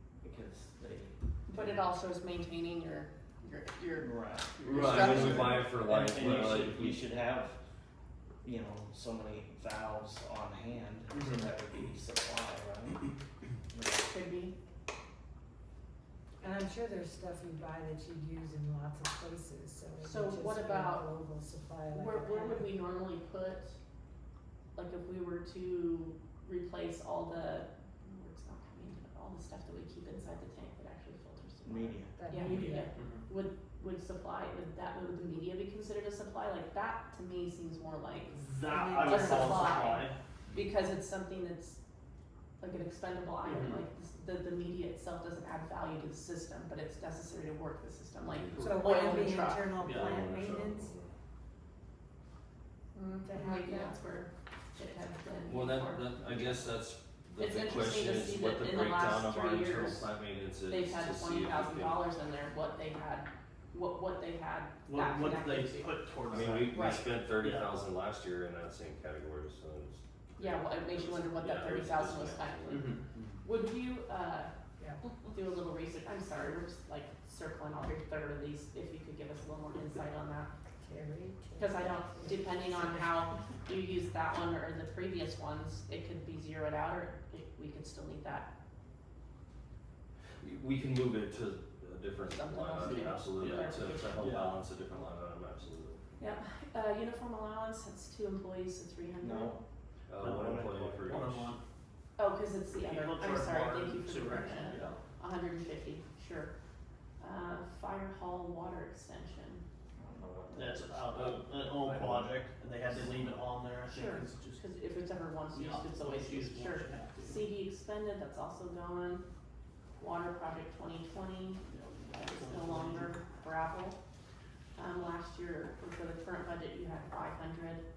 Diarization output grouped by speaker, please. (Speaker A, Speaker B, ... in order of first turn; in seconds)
Speaker A: 0.2-1.9, 4.0-7.6, 8.4-13.1, 13.7-14.1, 31.6-32.2, 99.2-99.6, 100.2-101.3, 109.9-113.4
Speaker B: 1.5-5.7, 14.1-14.5, 20.0-21.1, 21.9-23.8, 24.7-38.4, 39.0-41.8, 42.6-49.7, 52.9-56.6, 57.4-60.1, 60.7-65.9, 66.7-67.0, 70.4-74.5, 75.2-80.5, 81.6-88.5, 92.3-94.2, 96.2-99.6, 102.2-106.5, 107.2-109.6, 113.9-119.2, 120.0-124.0, 124.8-127.8
Speaker C: 4.6-5.5, 6.1-6.7, 11.1-11.4, 32.4-33.2, 38.3-40.1, 43.4-43.8, 49.8-50.2, 64.8-66.9, 67.4-67.7, 72.7-73.0, 92.8-94.6, 100.2-101.6, 102.7-105.0, 110.5-114.6, 115.5-117.5, 121.7-123.2
Speaker D: 4.7-7.0, 48.2-49.0, 49.8-51.1, 55.4-62.0, 66.3-72.9, 90.4-96.1, 100.1-101.5
Speaker E: 16.4-22.7, 32.1-32.9, 38.7-40.0, 48.6-50.9, 53.2-54.0, 80.8-83.4